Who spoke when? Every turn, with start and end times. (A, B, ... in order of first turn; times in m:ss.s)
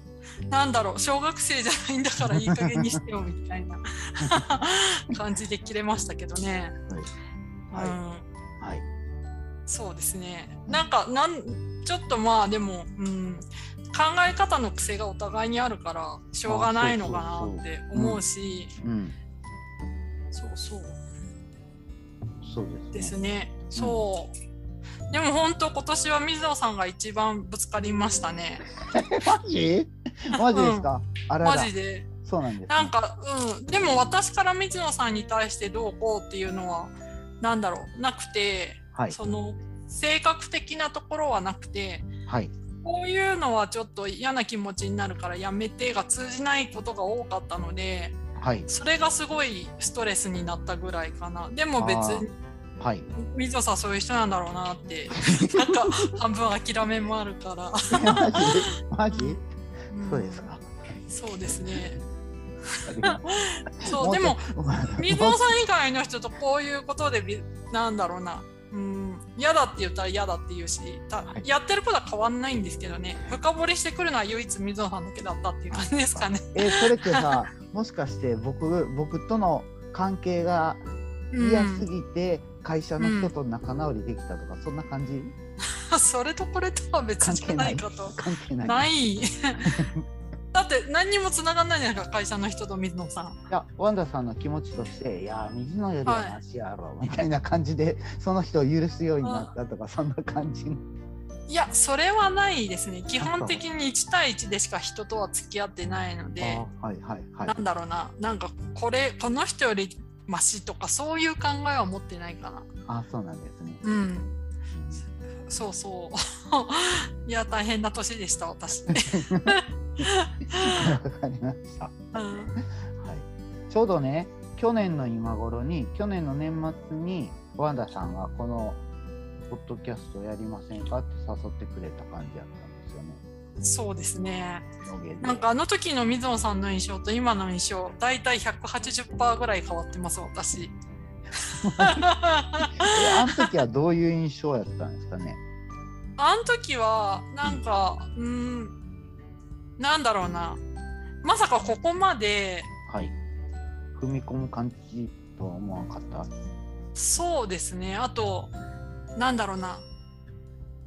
0:00.5-0:06.8 A
0:02.5-0:02.8 B
0:07.7-0:08.0 B
0:07.7-0:08.2 A
0:08.6-0:08.8 B
0:09.7-0:18.7 A
0:16.4-0:18.2 B
0:18.8-0:19.2 B
0:20.3-0:21.0 A
0:22.4-0:23.2 B
0:22.9-0:24.3 A
0:23.7-0:24.0 B
0:25.1-0:28.6 A
0:28.8-0:32.9 B
0:30.4-0:30.9 A
0:31.4-0:32.1 A
0:32.7-0:42.1 A
0:42.3-0:42.5 B
0:42.8-0:52.3 A
0:48.4-0:48.7 B
0:51.8-0:52.2 B
0:52.8-0:53.1 B
0:53.2-1:00.5 A
0:55.3-0:56.1 B
0:57.9-0:59.4 B
1:00.0-1:00.7 B
1:01.1-1:02.0 A
1:02.7-1:17.4 A
1:02.8-1:03.2 B
1:03.8-1:05.4 B
1:15.7-1:20.8 B
1:21.3-1:21.9 A
1:21.4-1:25.3 B
1:23.0-1:23.3 A
1:25.9-1:29.9 A
1:27.2-1:28.9 B
1:29.6-1:30.0 B
1:30.5-1:33.4 A
1:33.5-1:40.8 B
1:36.0-1:36.4 A
1:39.2-1:39.5 A
1:41.5-1:46.6 A
1:43.2-1:43.6 B
1:46.4-1:47.6 B
1:47.4-1:52.7 A
1:52.9-1:53.8 B
1:53.8-1:54.3 A
1:54.7-1:55.0 B
1:55.5-2:00.9 A
1:58.9-1:59.5 B
2:00.6-2:08.8 B
2:02.1-2:02.6 A
2:09.5-2:13.2 B
2:13.6-2:14.7 A
2:14.8-2:15.4 B
2:15.2-2:20.8 A
2:21.5-2:23.5 A
2:21.6-2:22.0 B
2:22.8-2:25.4 B
2:26.2-2:28.8 A
2:29.8-2:30.6 A
2:31.2-2:32.7 A
2:32.9-2:33.1 B
2:33.9-2:36.3 B
2:36.9-2:38.5 A
2:39.2-2:39.8 A